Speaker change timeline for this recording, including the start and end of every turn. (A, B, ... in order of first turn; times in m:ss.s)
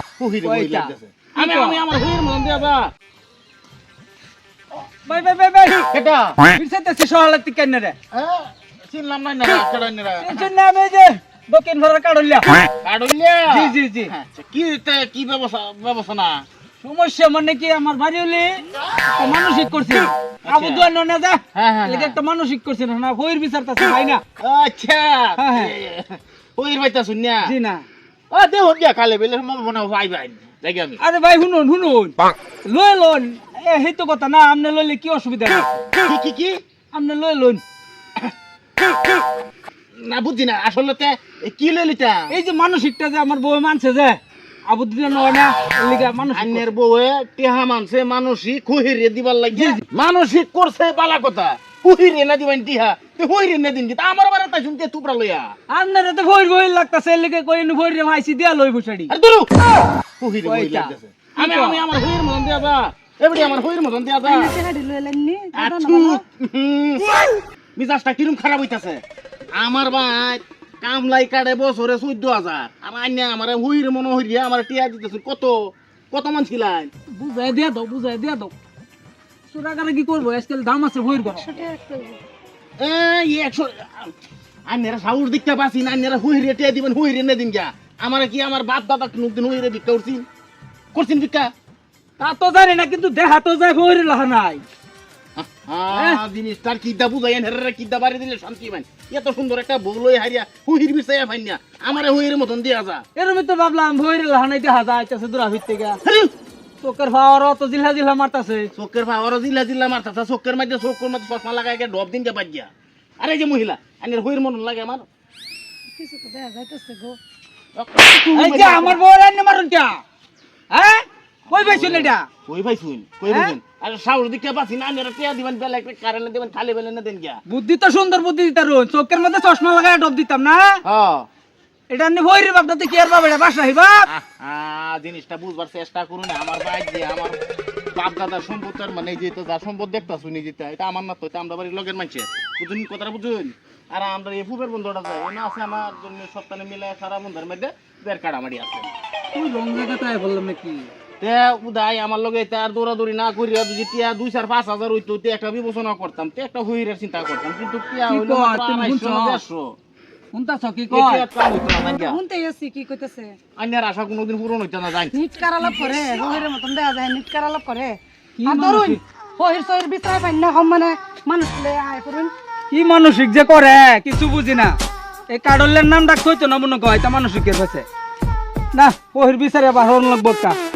0:00.2-0:02.9 A
0:00.4-0:01.8 B
0:05.0-0:05.9 B
0:05.9-0:06.4 A
0:06.5-0:08.0 B
0:08.1-0:10.5 A
0:10.2-0:12.6 B
0:12.8-0:16.4 A
0:13.5-0:14.1 B
0:16.8-0:24.2 B
0:20.4-0:20.9 A
0:21.5-0:22.2 A
0:24.4-0:27.5 A
0:25.4-0:25.7 B
0:27.4-0:27.8 B
0:28.3-0:31.0 A
0:31.0-0:35.8 B
0:36.0-0:36.6 A
0:36.9-0:37.6 B
0:40.0-0:42.3 A
0:42.3-0:46.6 B
0:46.3-0:55.5 A
0:49.5-0:49.8 B
0:55.7-0:59.1 B
0:59.1-0:59.6 A
1:00.2-1:04.6 A
1:00.4-1:01.8 B
1:04.2-1:06.2 C
1:05.5-1:07.1 A
1:07.8-1:09.0 A
1:09.5-1:16.9 A
1:17.1-1:18.5 B
1:19.5-1:21.6 B
1:21.2-1:22.2 C
1:22.8-1:24.1 A
1:24.6-1:30.2 A
1:30.9-1:31.5 A
1:32.2-1:34.6 B
1:35.4-1:43.0 A
1:35.9-1:36.2 B
1:43.2-1:46.0 B
1:46.0-1:46.3 A
1:46.8-1:48.7 B
1:48.8-1:55.0 A
1:56.0-1:57.2 C
1:57.8-1:59.0 A
1:58.3-2:00.0 B
2:00.7-2:02.2 B
2:01.5-2:07.4 A
2:03.3-2:03.5 B
2:07.5-2:10.8 B
2:10.8-2:11.3 A
2:11.9-2:14.1 B
2:14.1-2:17.4 A
2:17.9-2:28.9 A
2:29.3-2:30.9 B
2:31.2-2:39.8 A
2:38.1-2:39.4 B
2:40.3-2:41.2 B
2:40.9-2:42.2 A
2:41.8-2:43.4 C
2:43.6-2:45.1 A
2:45.1-2:52.3 C
2:48.4-2:49.0 B
2:52.7-2:54.7 B
2:55.3-2:57.8 B
2:58.7-3:00.6 B